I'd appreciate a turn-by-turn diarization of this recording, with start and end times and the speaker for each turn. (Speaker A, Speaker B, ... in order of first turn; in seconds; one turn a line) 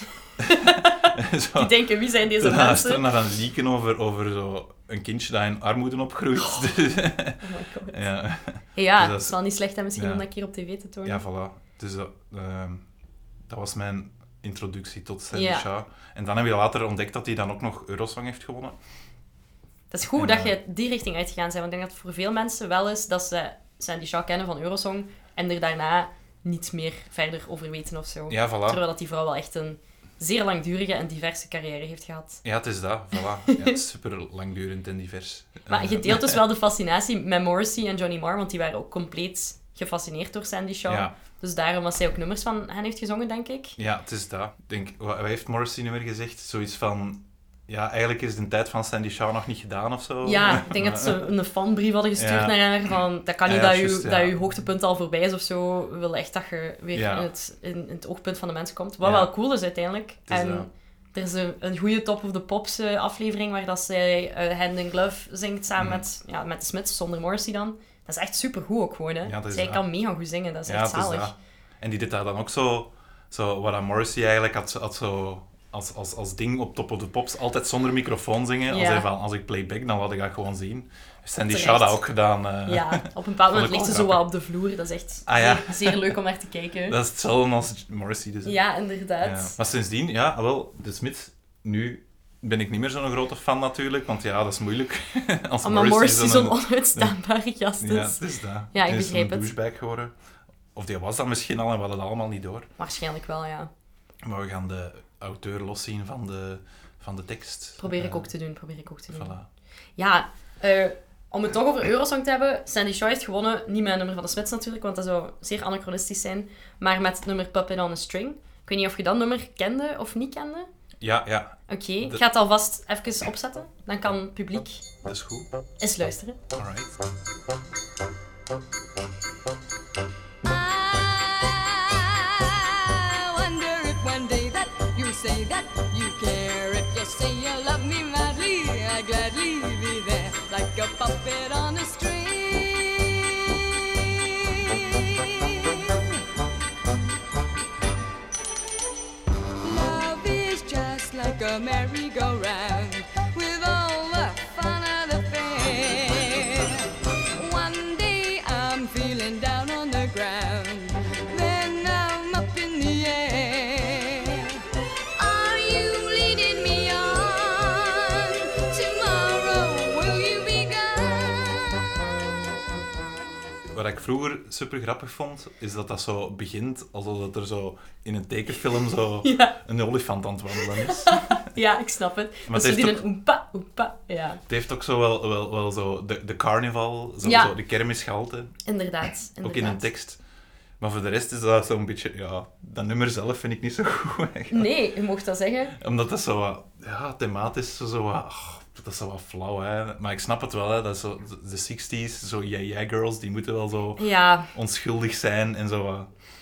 Speaker A: 0.4-9.4
Speaker B: 0.4-3.1
Speaker B: 6.4-6.7
Speaker B: 7.4-8.0
Speaker B: 8.8-11.2
Speaker A: 10.0-10.3
Speaker A: 11.1-12.8
Speaker A: 13.5-18.8
Speaker B: 15.3-15.7
Speaker B: 19.9-32.4
Speaker A: 20.1-20.6
Speaker A: 28.3-28.8
Speaker A: 32.4-36.4
Speaker B: 33.5-33.8
Speaker B: 35.7-43.8
Speaker A: 40.9-41.1
Speaker A: 43.8-51.2
Speaker B: 50.2-71.3
Speaker A: 52.2-52.6
Speaker A: 53.5-54.4
Speaker A: 56.9-57.3
Speaker A: 59.0-59.3
Speaker A: 60.3-60.7
Speaker A: 65.8-66.0
Speaker A: 69.2-69.8
Speaker A: 70.7-84.2
Speaker B: 78.7-79.1
Speaker B: 81.5-82.0
Speaker B: 82.7-87.0
Speaker A: 85.3-86.2
Speaker A: 86.9-88.6
Speaker B: 88.4-89.5
Speaker A: 89.2-97.2
Speaker B: 95.6-98.2
Speaker A: 97.8-100.1
Speaker B: 98.7-99.5
Speaker A: 100.8-102.7
Speaker B: 102.8-103.7
Speaker A: 104.2-108.3
Speaker B: 107.8-109.4
Speaker A: 109.1-109.5
Speaker B: 110.0-120.7
Speaker A: 121.0-122.2
Speaker B: 121.7-124.8
Speaker A: 125.0-125.5
Speaker B: 125.8-126.4
Speaker A: 126.5-127.0
Speaker C: 130.4-146.1
Speaker C: 149.6-164.6
Speaker C: 165.2-171.8
Speaker A: 173.7-181.4
Speaker B: 179.2-179.6
Speaker B: 180.6-184.4
Speaker A: 182.5-183.0
Speaker A: 184.5-188.5
Speaker B: 187.2-187.5
Speaker B: 188.7-189.9
Speaker A: 189.4-190.2
Speaker A: 190.8-194.7
Speaker B: 194.5-195.8
Speaker A: 195.8-206.1
Speaker B: 204.0-204.5